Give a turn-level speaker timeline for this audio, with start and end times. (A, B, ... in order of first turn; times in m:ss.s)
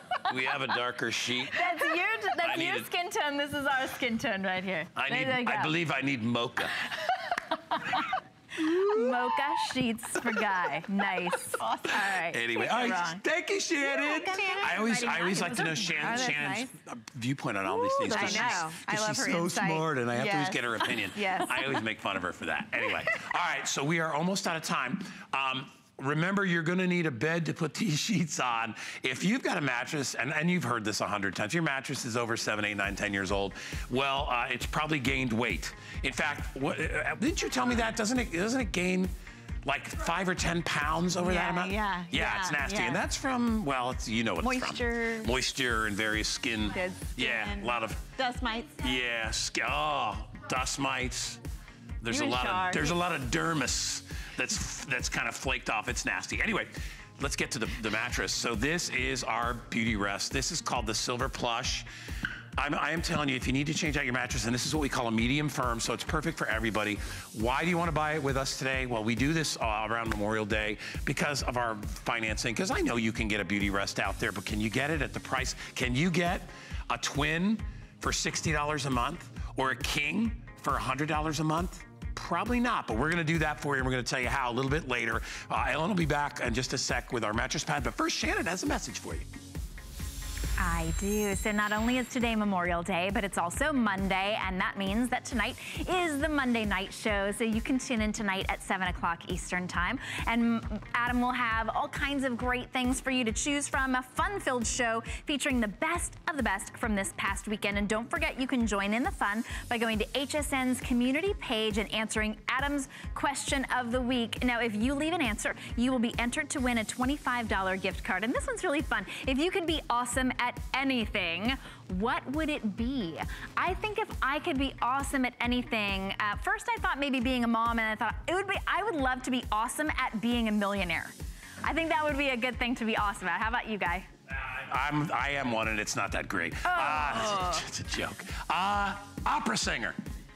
0:00.3-0:01.6 A
0:01.5-0:05.7 B
0:01.6-0:02.0 C
0:02.4-0:02.9 A
0:05.0-0:06.8 A
0:07.6-0:13.2 B
0:08.6-0:09.4 C
0:11.0-0:12.0 C
0:12.2-0:39.1 A
0:13.8-0:16.4 B
0:14.4-0:14.6 C
0:15.9-0:16.7 C
0:17.9-0:21.8 C
0:18.0-0:18.6 B
0:39.6-0:48.1 A
0:41.2-0:43.0 C
0:44.4-0:45.4 C
0:46.7-0:48.8 C
0:48.8-0:51.4 A
0:52.0-1:01.9 A
0:52.1-0:53.0 C
1:02.6-1:29.3 A
1:30.6-2:14.1 B
2:14.3-2:20.0 A
2:16.7-2:17.6 C